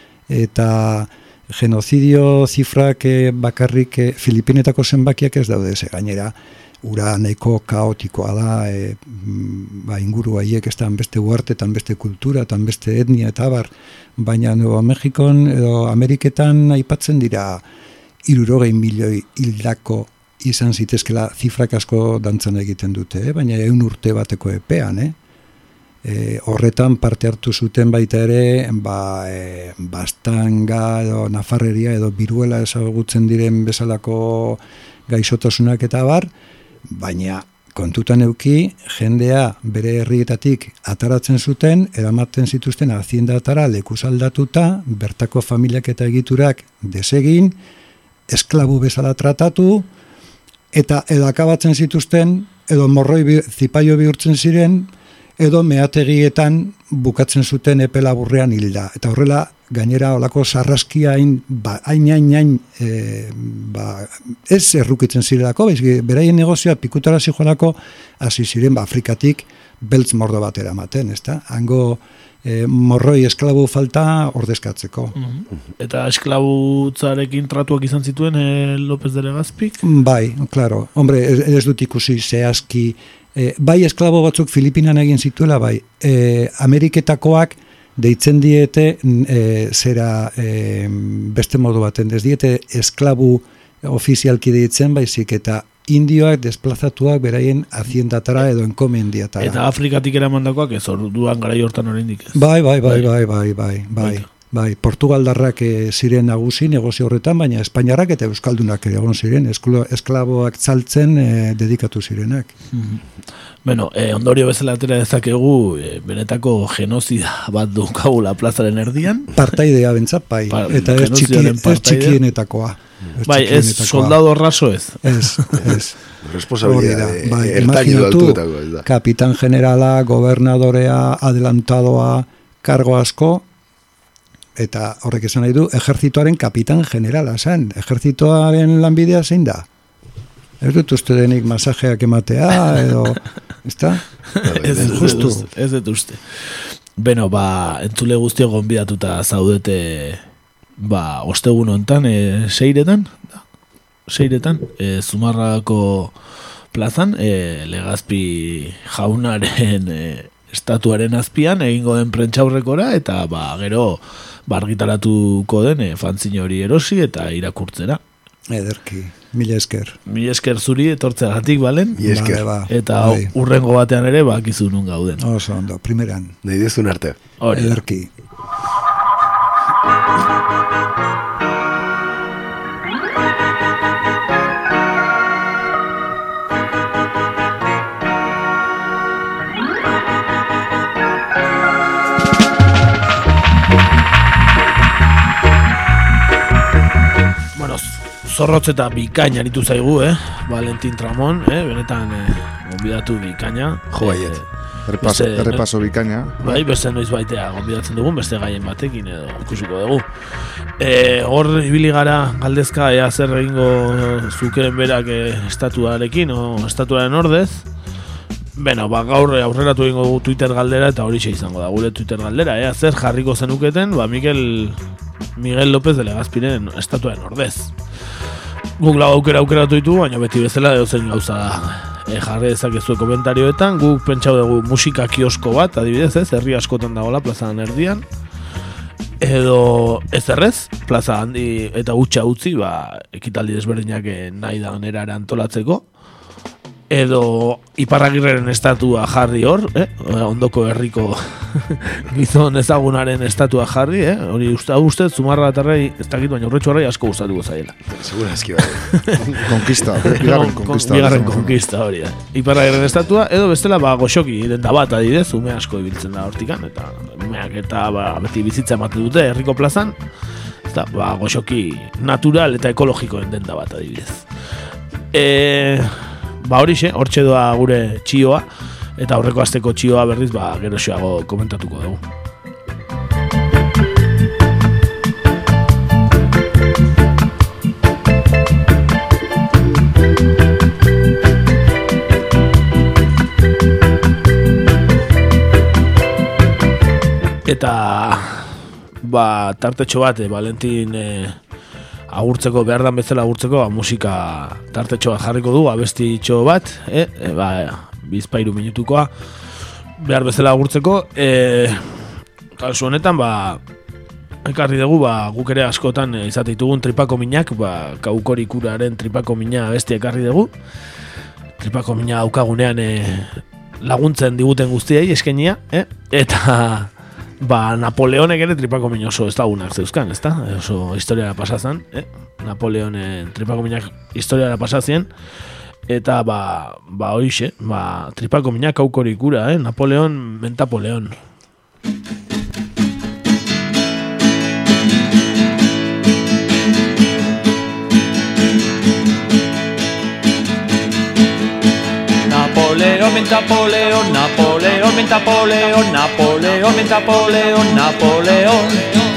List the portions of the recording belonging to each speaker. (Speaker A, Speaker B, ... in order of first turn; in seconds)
Speaker A: 0.3-17.6, 18.2-25.2, 26.0-36.3, 36.9-47.6, 48.3-49.9, 50.7-75.1, 79.8-99.6, 102.3-112.5, 119.3-124.2, 125.0-126.0, 126.6-133.4, 134.6-139.7, 140.6-144.0, 144.7-145.5, 168.5-170.0, 172.0-173.3, 175.2-176.4, 177.5-178.1
Speaker B: 75.2-79.8, 99.4-103.1, 112.7-113.0, 113.7-119.3, 120.5-122.2, 123.2-125.6, 144.4-150.2, 150.8-153.4, 154.1-156.1, 156.7-168.0, 170.1-172.0, 172.7-175.2, 177.4-177.8, 197.6-204.5, 205.0-205.7, 206.4-210.1, 210.8-217.7, 218.6-224.8, 225.4-227.7, 228.8-238.1, 239.2-245.9, 246.9-257.8, 258.9-259.4, 260.0-269.9, 270.7-274.3, 275.1-278.4, 279.0-282.0, 297.4-301.4, 302.1-309.1, 310.0-313.6, 314.4-320.5, 321.6-335.1, 335.9-341.2
Speaker C: 125.7-128.9, 144.4-145.3, 172.0-172.4, 176.4-177.2, 203.9-204.4, 257.9-259.4
Speaker D: 204.9-206.4, 259.4-261.6
Speaker E: 352.3-358.9